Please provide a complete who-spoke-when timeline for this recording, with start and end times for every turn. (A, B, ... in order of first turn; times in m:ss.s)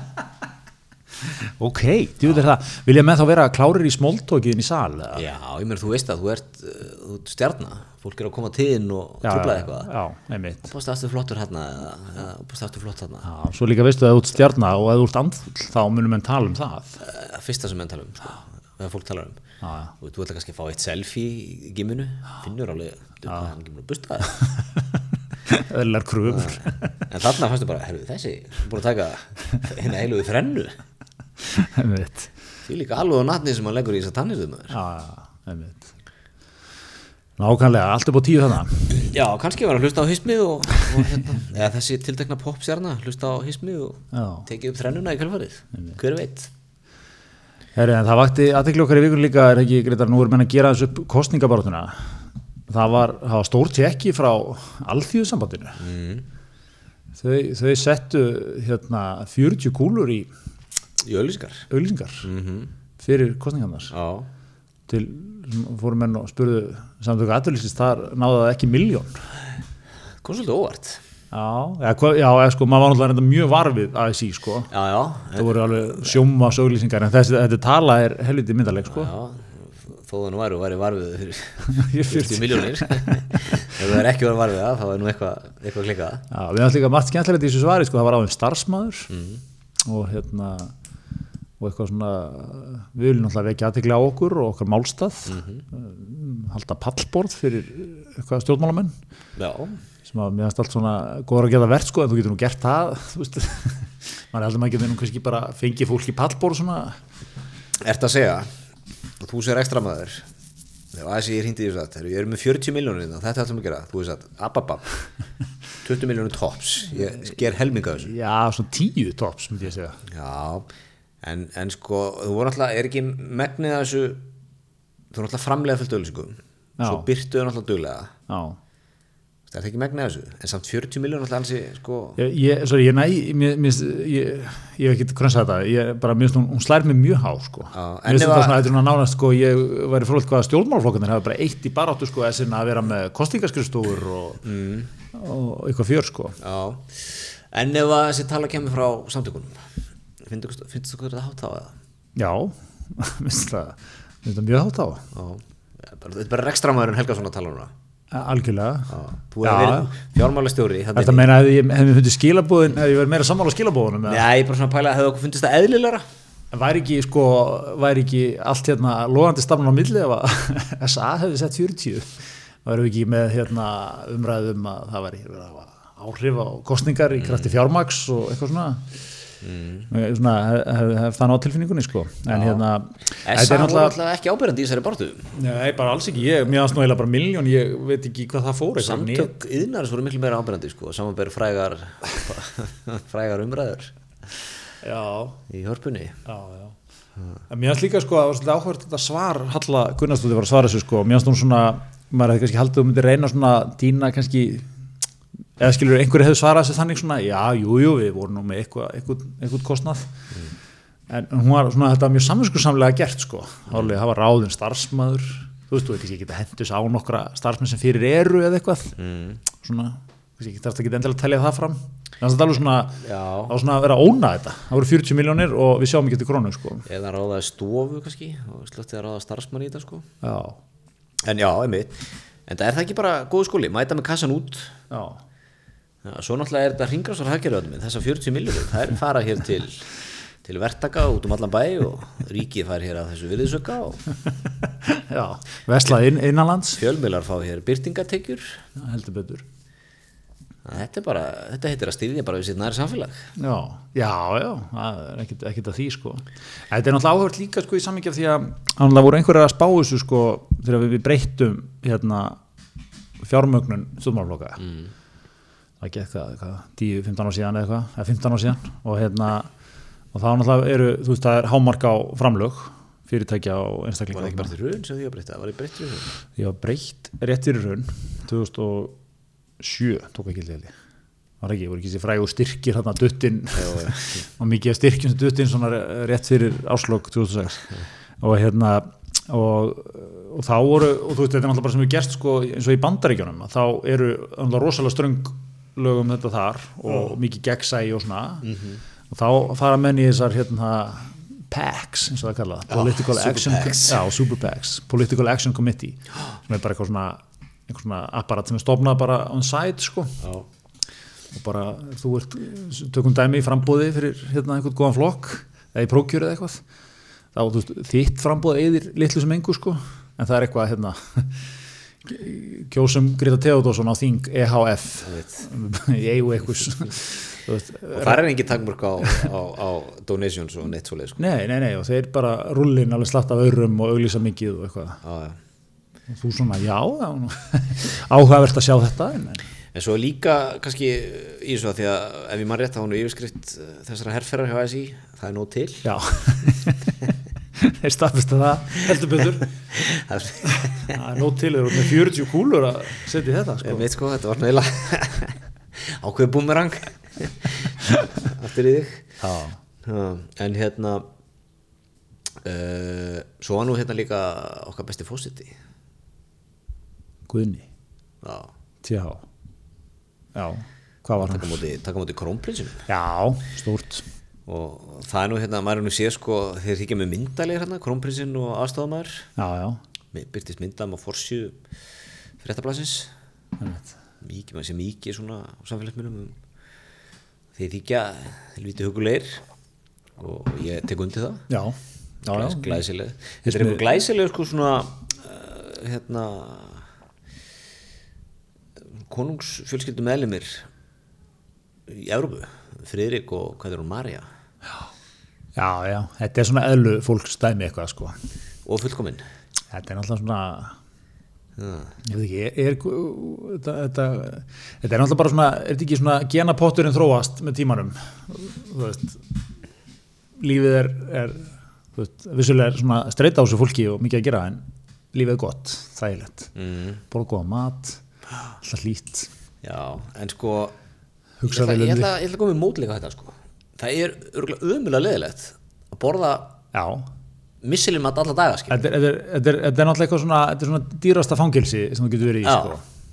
0:01.2-0:05.2 A
0:05.1-0:09.9 B
0:09.2-0:10.7 A
0:10.6-0:13.3 B
0:13.2-0:17.0 A
0:17.0-0:19.4 B
0:19.6-0:19.9 A
0:20.0-0:24.4 B
0:25.4-0:27.0 A
0:26.3-0:30.7 B
0:31.4-0:32.3 A
0:32.6-0:34.7 B
0:34.7-0:35.9 A
0:37.4-0:39.0 A
0:38.9-0:46.5 B
0:44.1-0:44.5 A
0:47.8-0:52.1 A
0:52.7-0:55.8 A
0:55.8-0:56.2 B
0:57.2-1:00.3 A
1:01.0-1:01.7 B
1:01.7-1:02.3 A
1:02.2-1:02.7 B
1:03.0-1:03.9 A
1:03.9-1:04.3 B
1:04.9-1:09.2 A
1:10.2-1:11.0 B
1:11.3-1:14.7 A
1:14.7-1:15.6 B
1:15.4-1:19.1 A
1:18.9-1:26.2 B
1:21.7-1:23.7 A
1:26.3-1:29.1 A
1:29.1-1:29.4 B
1:29.8-1:30.7 A
1:31.6-1:39.0 A
1:35.3-1:35.6 B
1:39.4-1:39.8 B
1:40.0-1:47.0 A
1:47.8-1:48.5 B
1:49.2-1:50.3 B
1:50.9-1:54.9 B
1:55.8-1:58.1 B
1:58.0-2:00.0 A
2:00.0-2:00.7 B
2:01.2-2:04.2 B
2:05.1-2:08.1 B
2:06.8-2:07.1 A
2:08.3-2:08.6 A
2:09.5-2:12.2 B
2:12.2-2:24.4 A
2:17.7-2:18.6 B
2:24.4-2:24.9 B
2:25.1-2:26.4 A
2:26.4-2:29.7 B
2:30.2-2:31.8 B
2:32.2-2:35.1 A
2:35.1-2:37.7 B
2:38.1-2:39.9 A
2:38.9-2:41.3 B
2:40.9-2:44.2 A
2:44.0-2:46.0 B
2:46.5-2:58.9 A
2:59.4-2:59.9 B
2:59.9-3:04.0 A
3:02.3-3:02.6 B
3:03.2-3:05.3 B
3:05.3-3:09.3 A
3:08.8-3:13.9 B
3:14.8-3:15.4 A
3:15.5-3:16.2 B
3:16.2-3:16.7 A
3:17.5-3:24.7 A
3:25.6-3:30.1 A
3:31.1-3:39.0 A
3:39.0-3:39.4 B
3:39.6-3:46.8 A
3:43.0-3:43.5 B
3:46.8-3:50.1 B
3:50.2-3:50.6 A
3:51.2-3:54.8 B
3:54.9-3:55.2 A
3:56.0-3:59.9 B
4:00.4-4:04.0 B
4:04.6-4:06.8 A
4:06.8-4:08.6 B
4:08.8-4:09.4 A
4:10.6-4:13.3 B
4:13.4-4:22.4 A
4:23.2-4:24.6 A
4:25.8-4:29.5 A
4:30.1-4:34.5 A
4:34.1-4:36.1 B
4:36.4-4:38.9 A
4:39.6-4:40.7 A
4:41.4-4:58.5 A
4:43.6-4:44.2 B
4:58.4-4:58.8 B
4:59.1-5:10.2 A
5:02.7-5:04.0 B
5:11.3-5:16.6 A
5:17.3-5:21.4 A
5:22.0-5:28.3 A
5:27.9-5:31.2 B
5:31.2-5:35.0 A
5:35.0-5:35.4 B
5:36.1-5:39.4 A
5:39.7-5:45.9 B
5:45.8-5:46.8 A
5:47.6-5:49.5 A
5:49.7-5:51.0 B
5:50.5-5:53.9 A
5:53.6-5:59.0 B
5:59.2-5:59.6 A
5:59.8-6:01.1 B
6:02.4-6:05.5 B
6:07.3-6:07.6 A
6:08.2-6:08.5 B
6:08.8-6:09.2 A
6:10.3-6:11.6 A
6:11.2-6:12.9 B
6:12.9-6:14.0 A
6:14.5-6:19.3 B
6:19.4-6:19.8 A
6:20.1-6:21.6 B
6:22.4-6:23.1 B
6:23.6-6:23.9 A
6:24.2-6:26.4 B
6:27.5-6:29.4 B
6:30.2-6:31.4 B
6:31.5-6:32.8 A
6:32.3-6:36.9 B
6:33.4-6:33.8 A
6:39.0-6:40.7 B
6:41.9-6:44.3 B
6:45.6-6:48.2 A
6:48.6-6:49.2 B
6:49.7-6:50.8 A
6:51.6-6:51.9 B
6:52.0-6:59.2 A
7:00.4-7:06.5 A
7:06.6-7:07.0 B
7:07.1-7:08.0 A
7:08.6-7:09.3 A
7:09.6-7:10.8 B
7:11.4-7:12.1 A
7:11.5-7:16.6 B
7:16.7-7:17.0 A
7:17.6-7:18.8 B
7:18.7-7:22.8 A
7:22.4-7:22.8 B